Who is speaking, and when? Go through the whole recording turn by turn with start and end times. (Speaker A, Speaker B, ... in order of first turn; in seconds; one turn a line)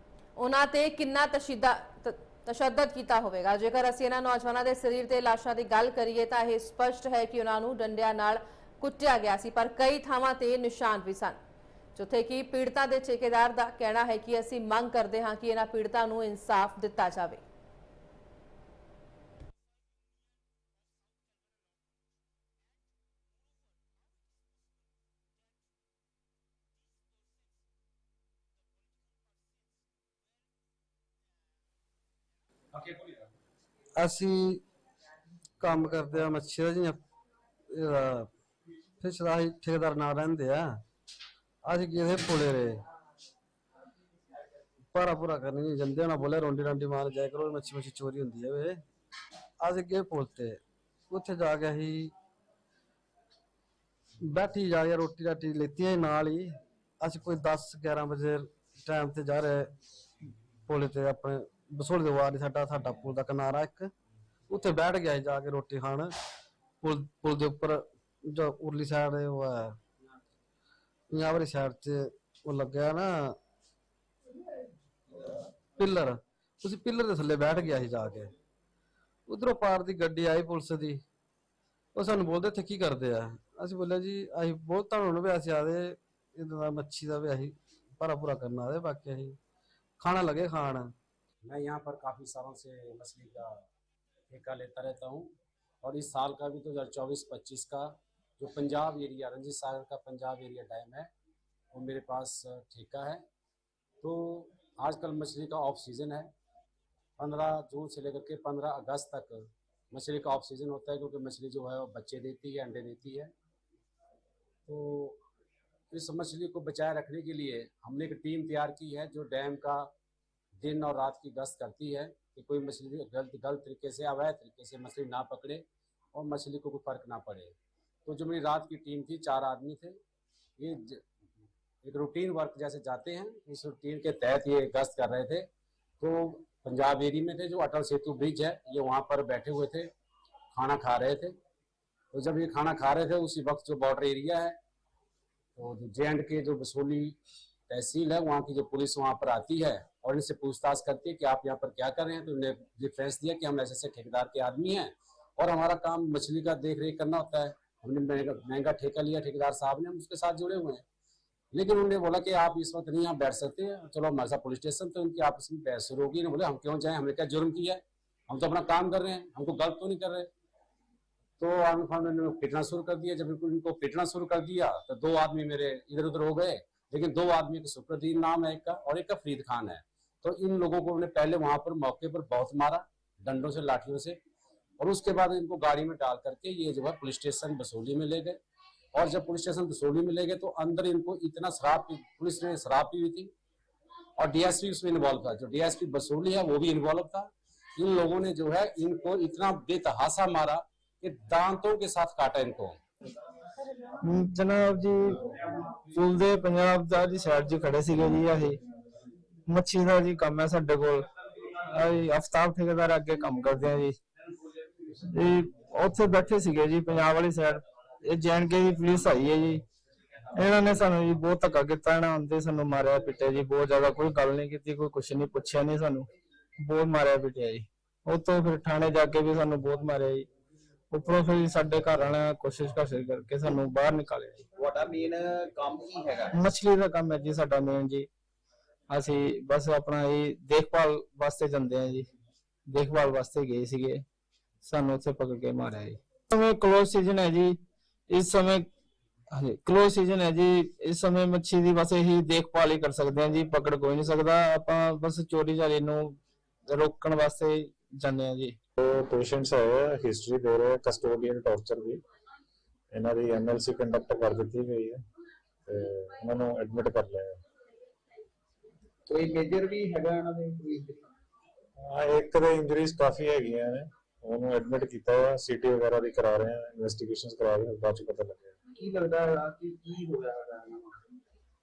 Speaker A: 0.3-11.4
Speaker A: 11.9-17.4
Speaker B: 32.7-33.1
Speaker C: 34.0-34.6
Speaker C: 35.6-37.0
Speaker C: 37.7-38.3
Speaker C: 39.0-40.8
Speaker C: 41.6-42.8
Speaker C: 44.9-48.8
Speaker C: 49.6-52.1
Speaker C: 54.2-59.7
Speaker C: 60.7-63.9
Speaker C: 64.5-66.1
Speaker C: 66.8-69.8
Speaker C: 71.1-73.4
Speaker C: 75.8-78.3
Speaker C: 79.3-81.0
Speaker C: 81.9-89.4
Speaker C: 90.0-90.9
Speaker B: 91.4-93.6
Speaker B: 94.3-101.1
Speaker B: 101.7-103.2
Speaker B: 104.0-106.3
Speaker B: 107.2-113.3
Speaker B: 114.7-115.2
Speaker B: 115.9-119.9
Speaker B: 120.6-127.5
Speaker B: 128.1-130.0
Speaker B: 130.6-131.0
Speaker B: 131.8-135.5
Speaker B: 136.0-139.9
Speaker B: 140.5-141.3
Speaker B: 142.1-144.6
Speaker B: 145.6-147.2
Speaker B: 147.7-160.8
Speaker B: 161.5-170.3
Speaker B: 171.4-184.2
Speaker B: 184.8-188.4
Speaker B: 188.9-193.3
Speaker B: 194.2-202.8
Speaker D: 204.0-205.2
Speaker D: 205.9-208.6
Speaker D: 209.5-211.1
Speaker D: 211.7-213.9
Speaker D: 215.1-219.6
Speaker D: 220.3-226.1
Speaker D: 226.6-230.3
Speaker D: 230.9-234.4
Speaker E: 234.6-236.3
Speaker D: 236.3-238.1
Speaker D: 238.9-242.1
Speaker D: 242.7-244.0
Speaker D: 244.6-247.6
Speaker D: 248.1-248.7
Speaker D: 249.3-256.2
Speaker D: 256.7-258.6
Speaker F: 258.8-262.0
Speaker F: 262.9-265.0
Speaker F: 265.6-267.4
Speaker E: 269.1-271.1
Speaker F: 271.8-278.5
Speaker E: 278.8-280.9